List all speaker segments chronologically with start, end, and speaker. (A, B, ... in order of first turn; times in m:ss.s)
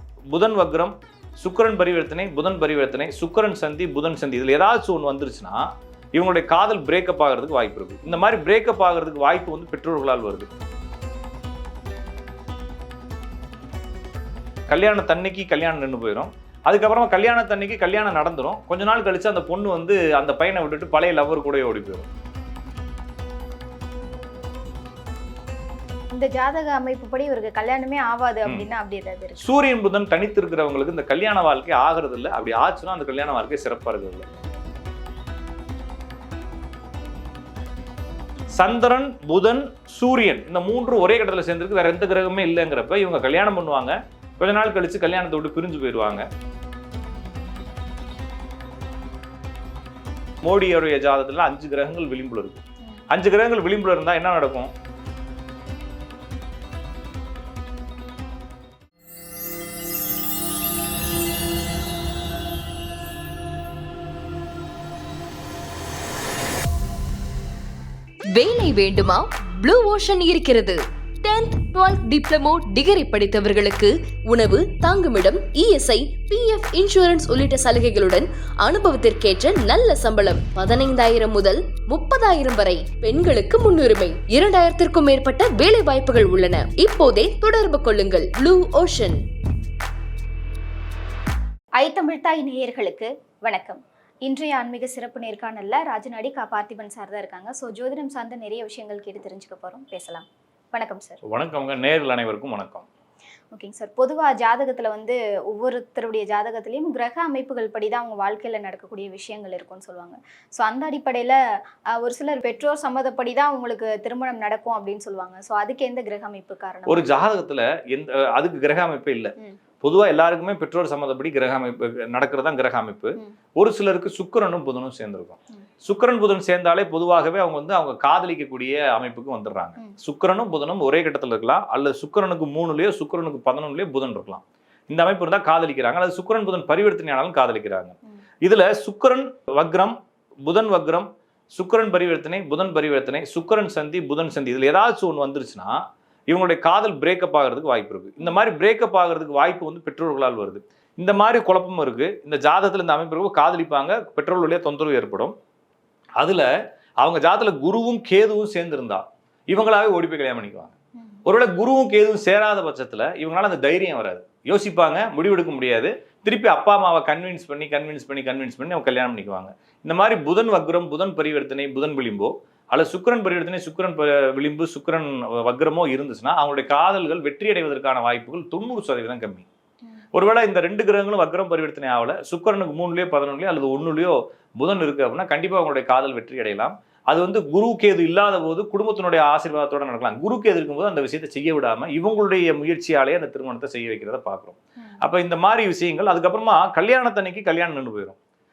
0:00.3-0:10.5 A
0:14.7-0:22.1 A
0:26.1-0:29.4 B
0:29.4-0:34.2 A
0:38.5-0:46.2 A
0:50.4-0:52.6 A
0:53.1-0:54.7 A
1:08.3-1:29.2 C
1:31.8-1:41.2 B
1:41.3-1:42.9 A
1:43.5-1:51.4 B
1:51.9-1:57.1 B
1:56.9-2:35.3 A
2:36.2-2:40.7 A
2:41.2-2:59.4 A
3:00.1-3:18.2 A